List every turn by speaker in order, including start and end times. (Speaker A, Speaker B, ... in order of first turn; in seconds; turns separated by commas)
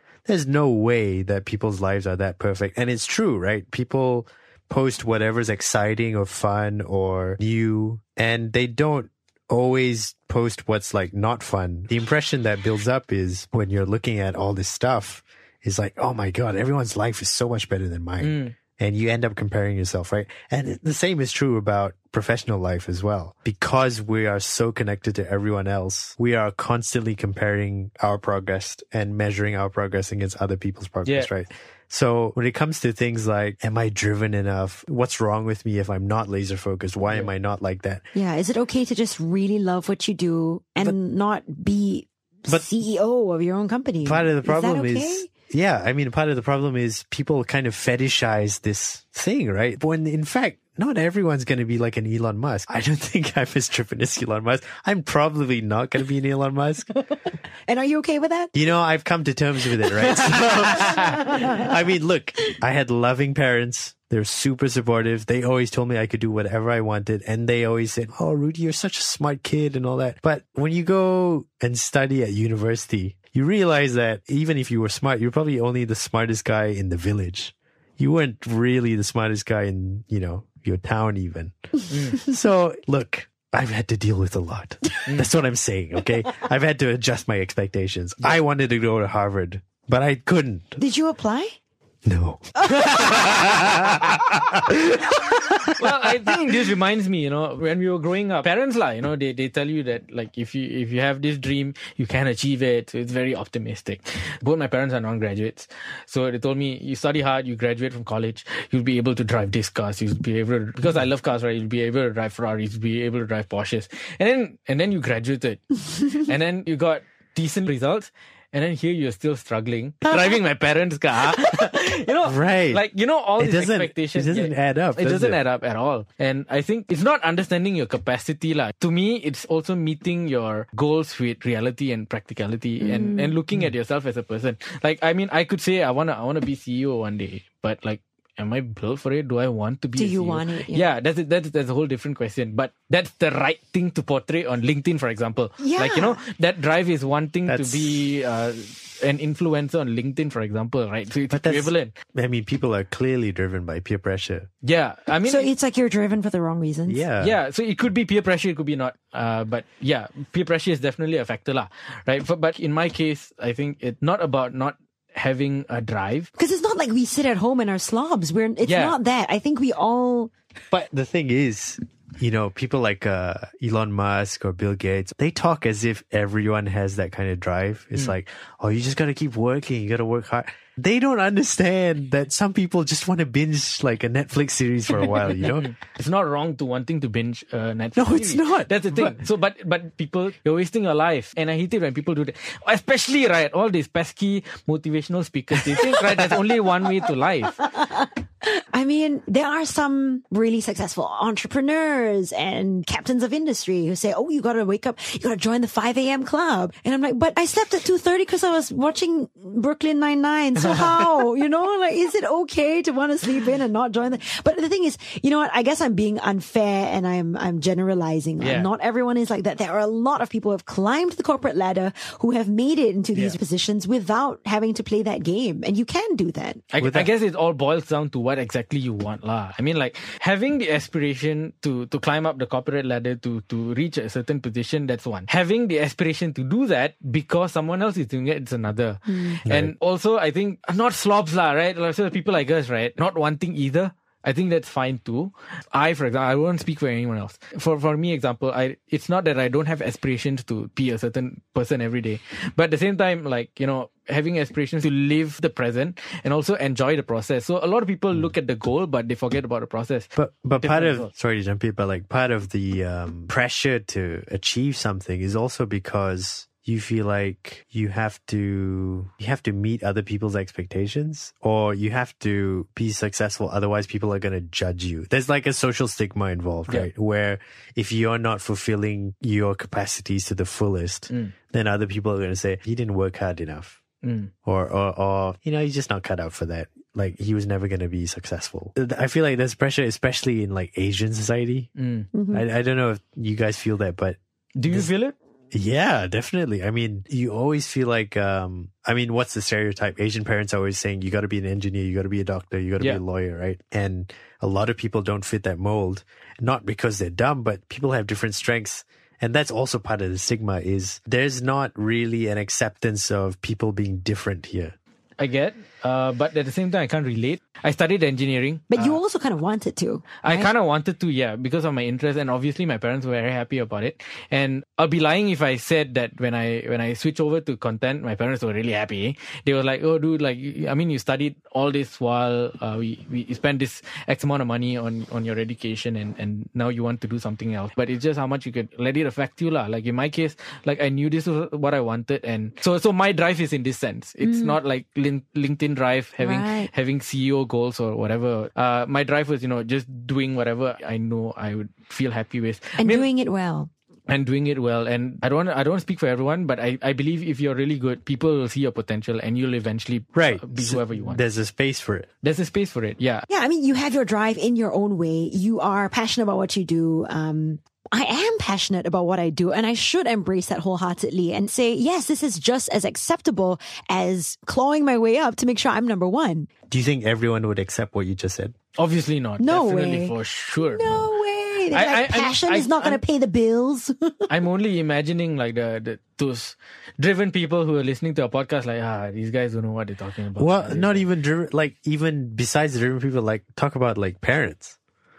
Speaker A: 0.3-38.0, Speaker B: 18.2-18.6, Speaker C: 38.1-45.3, Speaker A: 44.0-56.9, Speaker C: 57.7-58.5, Speaker A: 58.5-90.8, Speaker C: 60.1-61.7, Speaker B: 60.7-61.2, Speaker B: 81.9-82.2, Speaker C: 90.8-91.5, Speaker A: 92.1-94.8, Speaker C: 92.7-93.0, Speaker A: 95.5-96.5, Speaker B: 95.7-151.9, Speaker A: 122.2-122.8, Speaker A: 123.4-125.4, Speaker C: 132.8-133.3, Speaker C: 140.0-140.9, Speaker C: 145.6-146.2, Speaker A: 147.5-148.0, Speaker A: 151.3-154.5, Speaker B: 154.6-155.5, Speaker C: 155.3-157.1, Speaker A: 156.9-157.4, Speaker B: 157.2-166.3, Speaker C: 166.4-170.3, Speaker B: 168.7-169.0, Speaker A: 170.7-185.7, Speaker B: 185.0-197.6, Speaker A: 188.0-189.2, Speaker C: 197.6-226.7, Speaker B: 210.6-210.9, Speaker B: 218.4-218.7, Speaker B: 226.7-261.1, Speaker A: 226.8-227.1, Speaker C: 239.1-239.4, Speaker A: 239.5-239.7, Speaker A: 260.1-283.8, Speaker B: 284.0-284.3, Speaker A: 284.4-291.7, Speaker B: 291.8-292.1, Speaker C: 292.1-292.4, Speaker A: 292.3-294.2, Speaker B: 294.6-295.1, Speaker A: 295.5-314.8, Speaker B: 315.2-319.0, Speaker C: 318.7-320.5, Speaker B: 320.2-353.1, Speaker C: 344.2-344.6, Speaker C: 346.2-346.7, Speaker C: 352.8-353.7, Speaker B: 354.1-361.2, Speaker A: 360.1-362.1, Speaker B: 362.2-363.3, Speaker C: 363.3-376.5, Speaker A: 376.7-378.6, Speaker B: 378.8-381.1, Speaker C: 379.4-384.3, Speaker B: 381.7-383.0, Speaker B: 384.3-391.1, Speaker A: 390.4-394.8